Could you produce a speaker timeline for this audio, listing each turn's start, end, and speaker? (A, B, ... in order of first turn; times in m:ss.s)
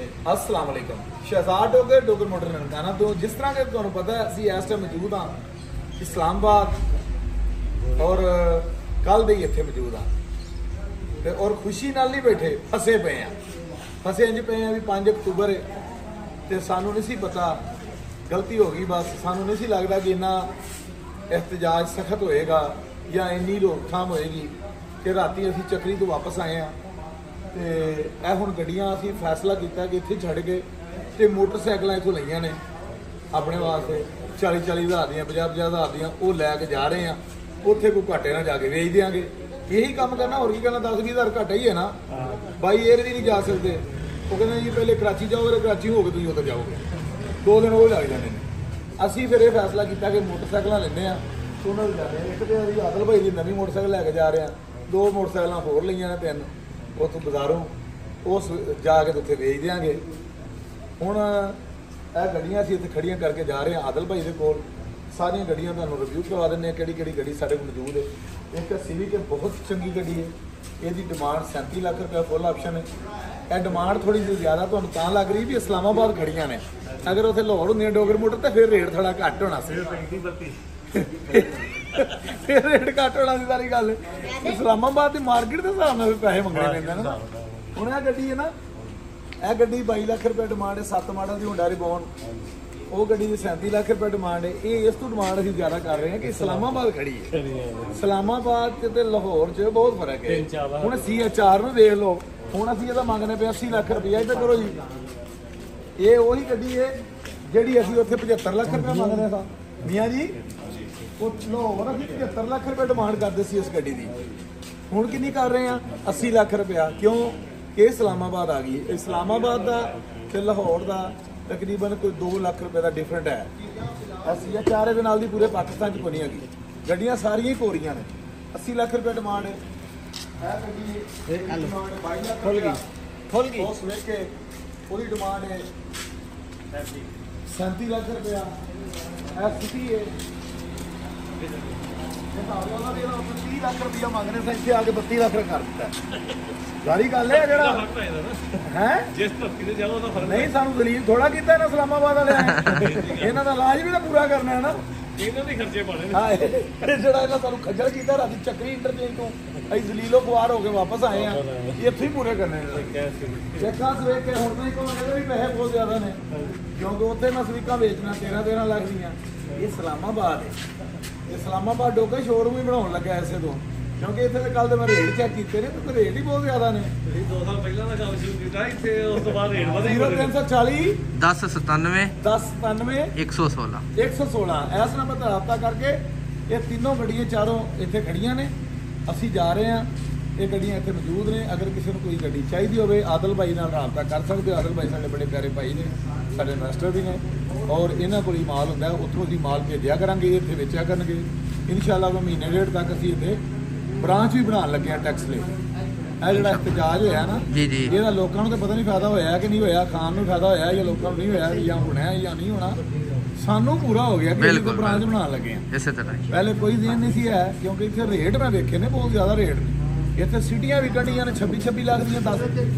0:00.2-0:05.4 A
0:06.0-0:06.8 A
0:08.0-0:10.1 A
0:11.2-0:13.3 A
0:14.0-0:15.6 A
0:16.5-0:17.6 A
0:18.3-0:20.5 A
0:21.3-0:26.7 A
0:27.5-0:32.6 A
0:33.3-0:42.0 A
0:42.1-0:42.4 B
0:42.6-0:46.8 A
0:47.4-0:48.4 A
0:49.0-0:57.7 A
0:58.2-1:00.0 A
1:01.0-1:01.6 A
1:02.1-1:12.8 A
1:13.5-1:19.9 A
1:19.7-1:20.6 B
1:21.0-1:27.2 A
1:26.5-1:27.8 B
1:27.7-1:28.5 A
1:29.4-1:32.1 A
1:32.9-1:37.3 A
1:36.2-1:38.0 B
1:37.9-1:44.8 A
1:40.3-1:41.1 B
1:46.0-1:47.0 A
1:47.5-1:50.4 A
1:51.2-1:54.1 A
1:54.9-2:03.5 A
2:04.2-2:09.6 A
2:10.4-2:12.8 A
2:11.3-2:11.7 C
2:12.4-2:13.7 C
2:13.5-2:14.3 A
2:14.9-2:15.6 A
2:17.5-2:18.5 A
2:19.3-2:20.1 A
2:21.4-2:22.0 B
2:22.3-2:25.9 A
2:26.8-2:27.8 A
2:27.3-2:30.5 B
2:28.6-2:29.1 A
2:30.2-2:34.8 A
2:32.6-2:33.4 B
2:35.2-2:36.4 B
2:36.1-2:42.9 A
2:41.1-2:41.8 B
2:42.7-2:43.7 B
2:43.6-2:46.2 A
2:46.3-2:46.6 B
2:46.8-2:50.5 A
2:51.3-2:56.9 A
2:57.1-3:00.3 B
2:59.8-3:01.0 A
3:01.1-3:02.1 C
3:02.2-3:03.1 A
3:03.1-3:03.8 C
3:03.9-3:08.5 A
3:09.1-3:09.9 A
3:10.4-3:23.4 A
3:24.0-3:25.5 A
3:26.2-3:32.8 A
3:26.3-3:26.8 C
3:27.5-3:27.9 C
3:33.4-3:35.6 A
3:34.3-3:35.1 C
3:35.7-3:36.3 C
3:36.3-3:42.6 A